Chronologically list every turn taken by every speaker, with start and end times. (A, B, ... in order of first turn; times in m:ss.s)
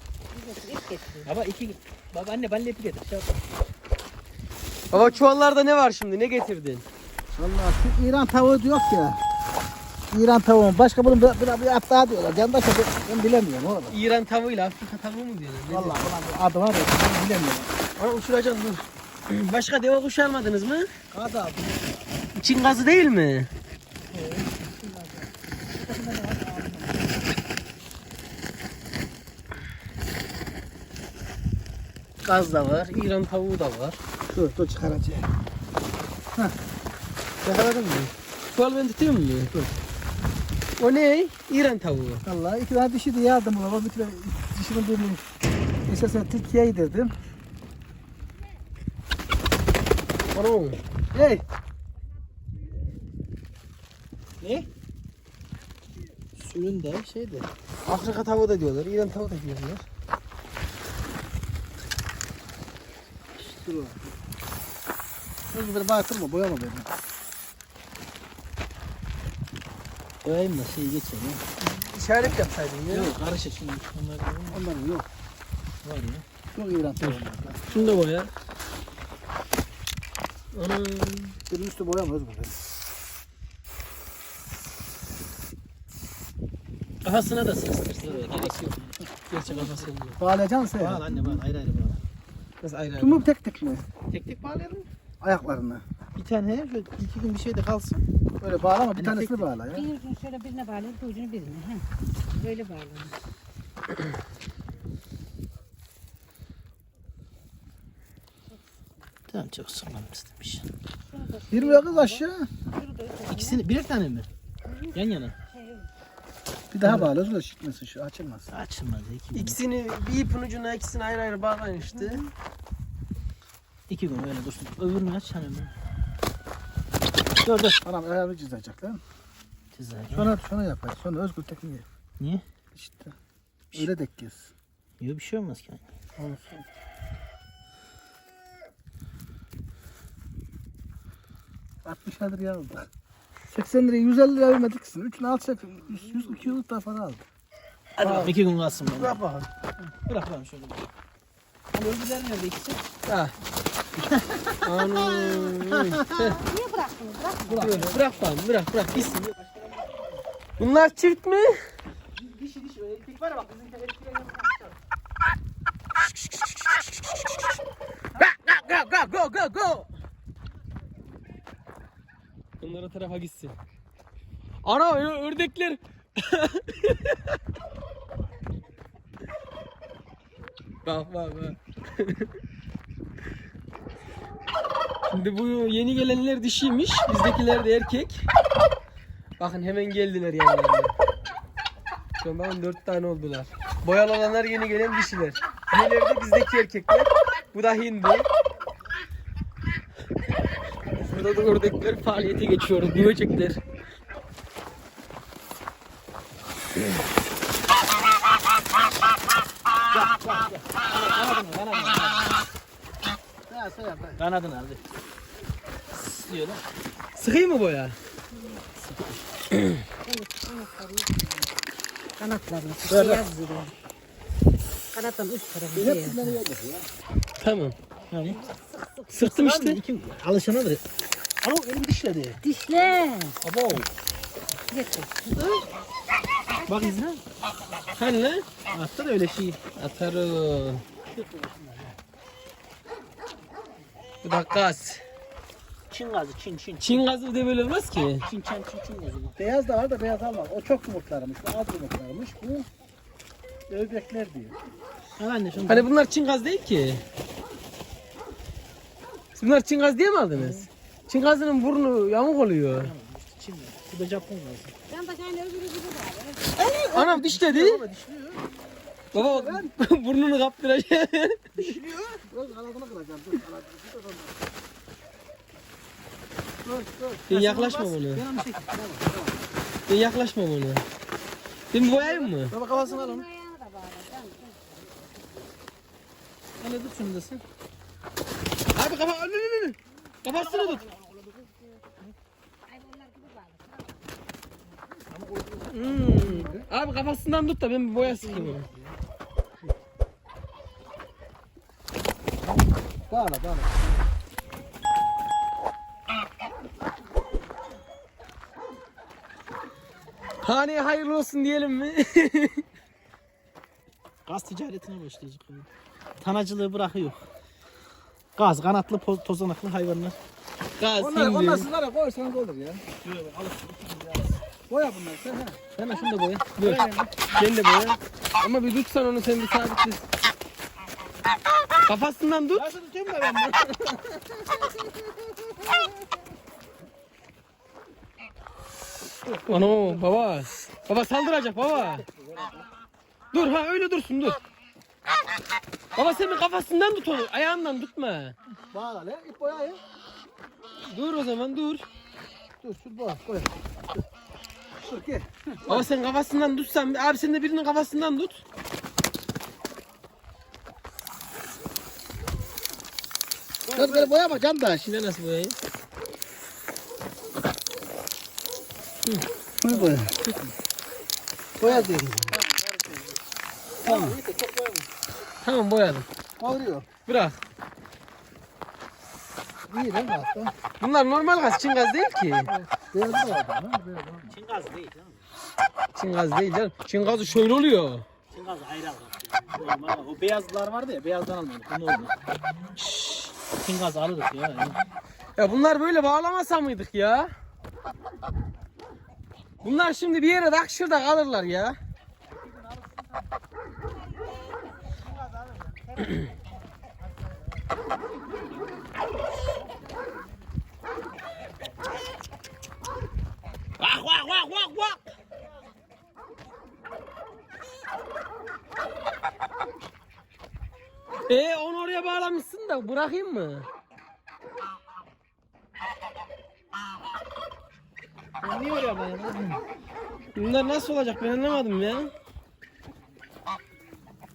0:00.3-0:01.3 A
0:01.2-0:03.4 B
0:04.9-0:06.9 C
0:07.3-0:09.2 D
0:10.1-0:14.0 D
0:13.9-0:16.1 C
0:15.7-0:17.7 D
0:18.0-0:20.9 C
0:21.1-0:21.9 B
0:22.4-0:23.5 C
0:24.2-0:24.5 B
0:24.8-0:25.2 D
0:25.8-0:26.4 D
0:26.0-0:26.8 B
0:32.2-0:34.0 C
0:34.3-0:35.3 D
0:37.4-0:39.6 C
0:40.8-0:42.2 C
0:42.2-0:45.2 D
0:45.9-0:47.1 D
0:50.3-0:50.8 C
0:51.1-0:51.4 D
0:54.4-0:54.7 B
0:56.4-0:57.5 B
0:57.9-0:59.8 C
1:03.5-1:03.9 B
1:05.5-1:06.9 D
1:10.2-1:11.4 B
1:11.6-1:13.1 C
1:12.9-1:14.6 B
1:14.5-1:15.1 D
1:15.8-1:16.2 B
1:16.5-1:18.0 D
1:17.0-1:18.3 C
1:20.5-1:21.4 C
1:21.5-1:22.6 D
1:27.0-1:29.9 B
1:27.6-1:28.6 C
1:29.3-1:30.2 C
1:30.2-1:31.4 D
1:30.8-1:32.0 B
1:32.6-1:33.2 C
1:33.0-1:33.8 D
1:34.1-1:34.9 B
1:35.2-1:35.8 D
1:36.2-1:38.0 B
1:38.4-1:39.9 D
1:39.0-1:39.5 B
1:39.7-1:43.2 A
1:49.3-1:50.7 B
1:51.1-1:53.6 A
1:51.5-1:52.5 D
1:53.3-1:54.3 B
1:54.9-1:55.4 B
1:55.5-1:55.9 A
1:56.7-1:58.5 D
1:56.8-1:57.1 B
1:58.5-1:59.6 B
1:59.3-2:02.3 C
2:03.9-2:05.7 B
2:07.4-2:07.8 B
2:07.8-2:09.0 D
2:09.7-2:10.3 B
2:10.2-2:11.8 D
2:12.2-2:12.4 B
2:12.8-2:13.2 D
2:13.7-2:14.5 D
2:15.0-2:15.9 B
2:21.8-2:22.9 D
2:23.5-2:27.3 D
2:28.0-2:29.2 B
2:28.0-2:28.3 C
2:30.0-2:30.9 B
2:31.7-2:32.8 B
2:33.1-2:33.3 C
2:34.0-2:36.1 B
2:34.6-2:36.4 C
2:36.2-2:38.0 A
2:37.5-2:38.0 B
2:37.5-2:39.2 C
2:38.9-2:40.2 B
2:40.6-2:41.6 C
2:42.2-2:44.8 B
2:48.2-2:49.9 C
2:52.6-2:53.6 C
2:54.6-2:57.3 C
3:00.8-3:02.3 C
3:05.1-3:08.2 C
3:09.4-3:10.9 C
3:12.2-3:18.3 C
3:21.0-3:23.6 C
3:29.9-3:32.4 B
3:33.5-3:34.2 D
3:34.2-3:34.8 B
3:36.1-3:36.6 B
3:37.2-3:38.0 C
3:40.0-3:41.5 A
3:42.2-3:43.7 A
3:42.9-3:43.2 B
3:44.9-3:46.4 A
3:45.7-3:46.9 D
3:47.4-3:47.8 C
3:48.1-3:48.5 B
3:48.5-3:49.2 A
3:49.1-3:49.8 C
3:49.1-3:50.8 B
3:51.4-3:52.4 B
3:52.4-3:53.4 A
3:53.4-3:53.9 B
3:54.7-3:55.5 A
3:56.7-3:57.2 B
3:58.0-3:58.5 C
3:58.7-3:59.6 B
3:59.7-4:00.8 C
4:01.2-4:02.0 B
4:04.2-4:05.0 C
4:05.9-4:07.1 B
4:06.8-4:08.2 C
4:08.2-4:09.4 B
4:09.4-4:12.7 D
4:13.7-4:14.6 D
4:15.2-4:15.9 B
4:15.6-4:17.0 C
4:19.4-4:22.9 C
4:20.4-4:20.7 B
4:22.7-4:24.8 B
4:24.9-4:26.9 A
4:26.6-4:28.4 B
4:26.9-4:27.8 C
4:29.1-4:31.8 C
4:29.1-4:29.7 D
4:31.6-4:32.2 B
4:32.2-4:34.4 D
4:36.6-4:37.3 D
4:37.3-4:38.2 C
4:37.3-4:38.8 B
4:38.8-4:39.4 D
4:39.9-4:40.8 C
4:41.7-4:42.6 C
4:41.9-4:43.2 B
4:42.6-4:44.7 A
4:46.6-4:47.4 B
4:48.7-4:50.9 C
4:50.9-4:51.4 B
4:52.7-4:54.0 A
4:55.1-4:55.9 B
4:55.7-4:58.7 C
4:56.0-4:56.7 D
4:58.0-4:58.7 B
5:03.1-5:03.9 D
5:10.4-5:12.6 C
5:14.3-5:15.7 B
5:16.2-5:17.3 B
5:18.4-5:20.2 B
5:20.8-5:21.7 C
5:21.0-5:22.8 D
5:23.0-5:24.4 B
5:24.7-5:25.7 D
5:25.8-5:30.0 C
5:26.6-5:27.1 D
5:31.8-5:32.7 C
5:32.6-5:34.0 B
5:39.3-5:40.1 D
5:39.5-5:42.0 C
5:41.8-5:42.6 D
5:43.3-5:44.4 C
5:46.0-5:48.3 C
5:48.7-5:49.8 D
5:50.8-5:51.8 C
5:52.6-5:53.5 D
5:54.8-5:55.9 D
5:55.7-5:58.4 C
6:03.7-6:04.4 B
6:03.7-6:04.8 D
6:04.8-6:05.6 C
6:09.6-6:10.4 D
6:11.6-6:12.4 D
6:11.6-6:13.2 B
6:13.8-6:14.9 B
6:13.8-6:14.2 D
6:15.4-6:16.1 C
6:16.4-6:16.9 D
6:17.1-6:17.4 C
6:19.6-6:20.5 D
6:20.8-6:22.5 C
6:22.5-6:24.3 D
6:24.3-6:25.3 B
6:26.0-6:28.1 C
6:28.3-6:32.1 B
6:32.8-6:33.3 C
6:33.5-6:34.8 B
6:35.4-6:37.3 C
6:39.6-6:41.8 C
6:53.8-6:55.0 C
7:01.3-7:03.7 C
7:08.4-7:09.6 B
7:10.4-7:12.1 C